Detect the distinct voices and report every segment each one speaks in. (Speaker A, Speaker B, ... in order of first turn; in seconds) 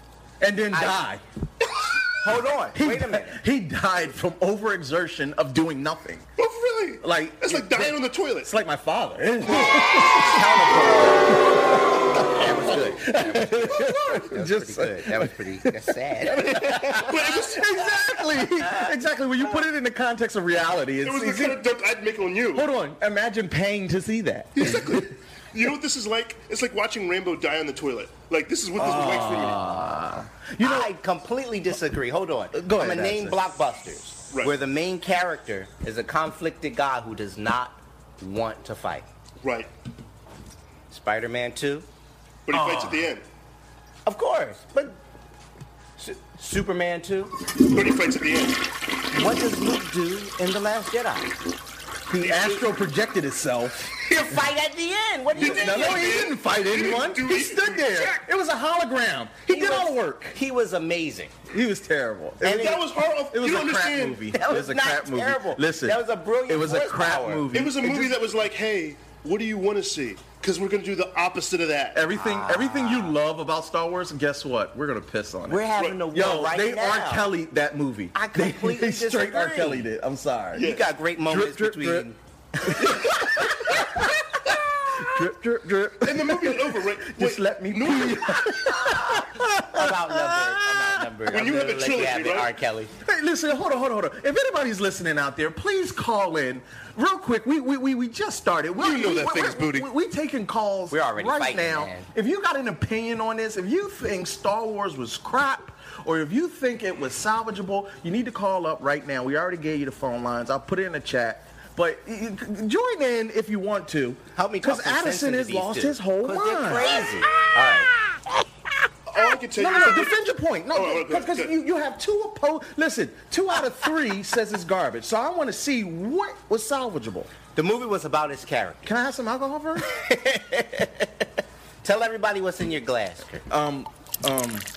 Speaker A: 0.4-1.2, 2.7-6.3, 7.0-21.6, 22.5-25.1, 28.8-30.9, 32.5-33.4, 42.5-43.1, 52.1-54.4, 55.4-60.4, 61.5-62.8, 63.3-68.2, 71.9-80.7, 81.2-91.1, 93.0-117.0, 119.5-127.3, 128.8-129.9, 133.5-134.7
Speaker B: 0.7-1.0, 2.2-3.4, 9.5-11.5, 12.1-17.3, 30.6-39.0, 40.9-41.9, 44.0-45.0, 46.0-47.4, 49.1-51.3, 54.0-56.1, 59.5-61.3, 62.4-62.8, 64.3-67.5, 72.1-73.2, 75.5-77.3, 78.1-79.9, 80.5-82.2, 82.7-83.0, 89.0-92.9, 100.9-102.1, 114.3-117.9, 127.5-128.9, 129.8-131.2, 131.8-133.4
Speaker C: 6.4-8.5, 16.9-17.8, 21.0-22.7, 24.6-29.7, 39.4-39.7, 42.5-43.2, 47.6-48.6, 52.2-52.6, 55.4-58.2, 62.4-64.2, 67.5-72.0, 80.5-80.9, 86.0-88.5, 91.3-92.5, 98.8-99.9, 119.1-120.2, 120.7-121.5